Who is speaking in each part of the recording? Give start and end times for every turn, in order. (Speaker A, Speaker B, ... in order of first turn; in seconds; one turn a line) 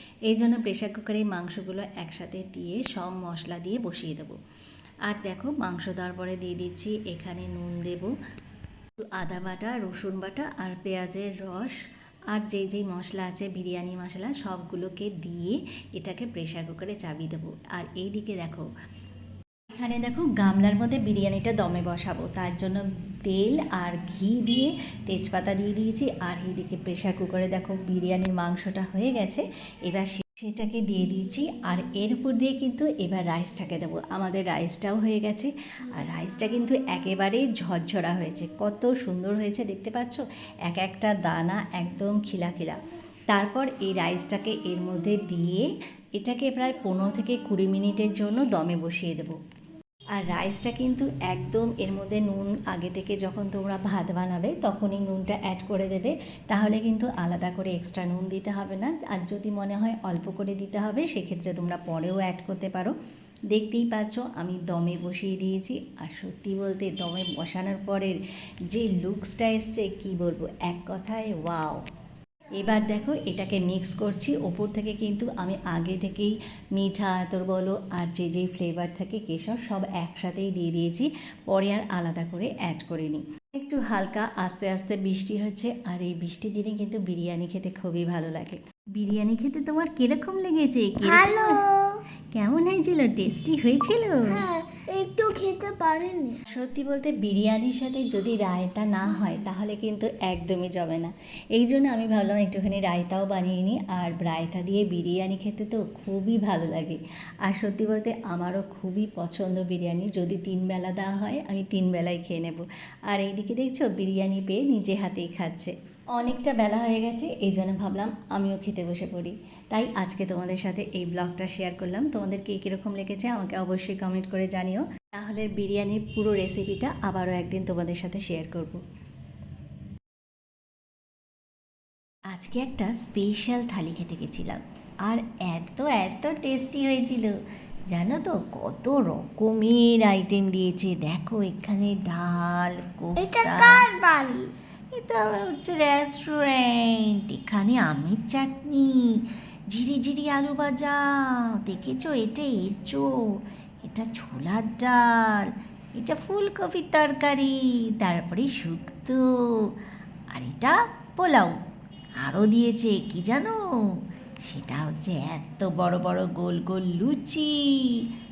Speaker A: 0.3-4.3
Speaker A: 5.1-8.1
Speaker A: 9.0-11.8
Speaker A: 12.3-18.7
Speaker A: 19.7-45.7
Speaker A: 46.2-49.4
Speaker A: 50.2-62.9
Speaker A: 63.5-68.2
Speaker A: 68.7-71.8
Speaker A: 72.6-91.5
Speaker B: 91.0-91.9
Speaker A: 92.3-94.3
Speaker B: 94.3-96.4
Speaker A: 96.5-128.8
Speaker A: 132.3-137.3
Speaker A: 137.9-143.8
Speaker B: 143.2-144.5
Speaker A: 144.9-149.0
Speaker A: 149.7-159.2
Speaker A: 160.3-161.5
Speaker A: 162.2-163.5
Speaker A: 164.5-167.5